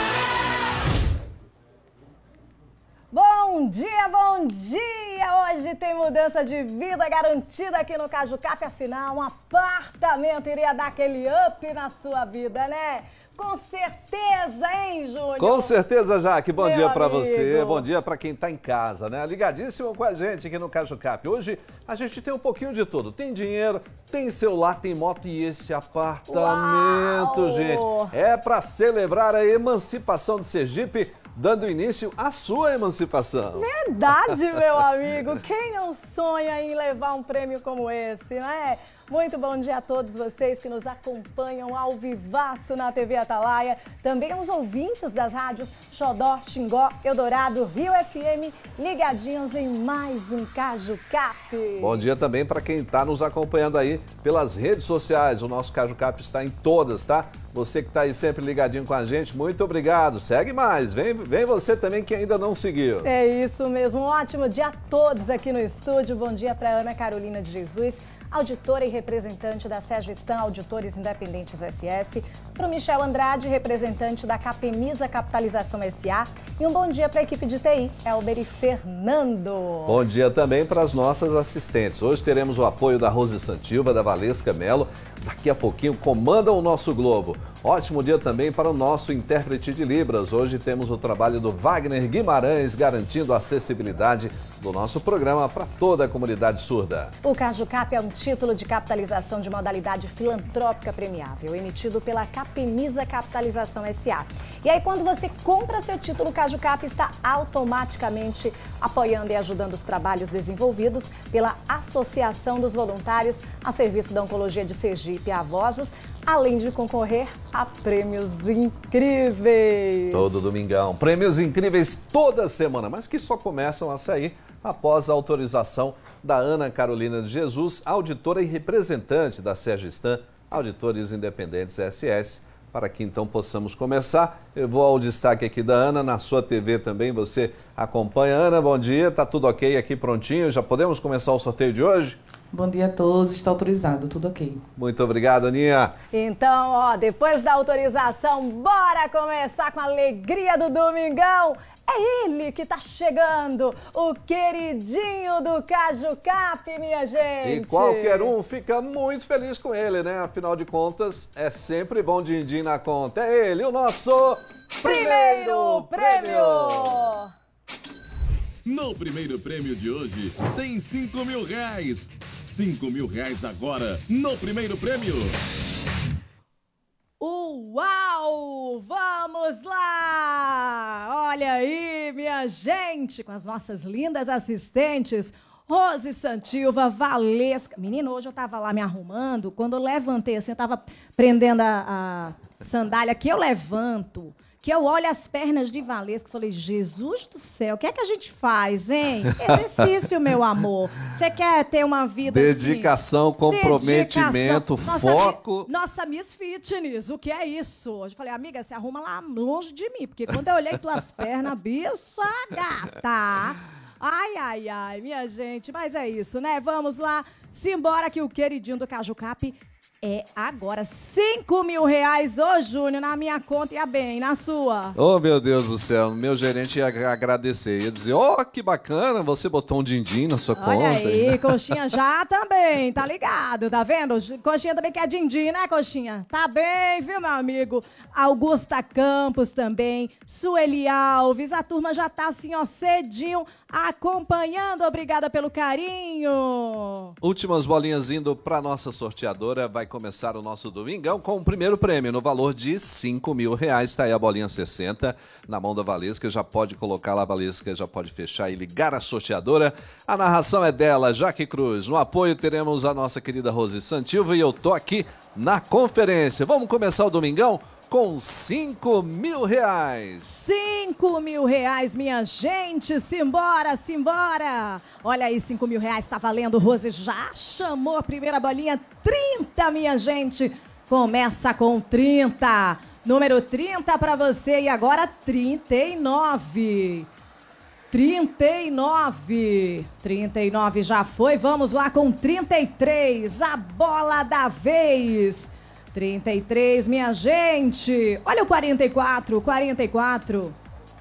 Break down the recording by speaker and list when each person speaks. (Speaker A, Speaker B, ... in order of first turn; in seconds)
Speaker A: 3.1-15.8, 16.6-17.9, 26.3-28.1, 33.5-52.0, 63.0-80.0, 97.2-120.5, 146.1-158.3, 164.8-167.3, 177.2-202.9, 203.5-225.0, 230.6-247.2, 270.2-287.1, 287.9-300.6
Speaker B: 15.4-33.7, 51.8-63.1, 79.9-97.2, 120.1-142.2, 144.8-146.0, 157.4-167.1, 199.3-199.6, 202.2-205.7, 224.9-231.8, 247.2-270.3
Speaker C: 142.5-144.6
Speaker D: 168.7-175.4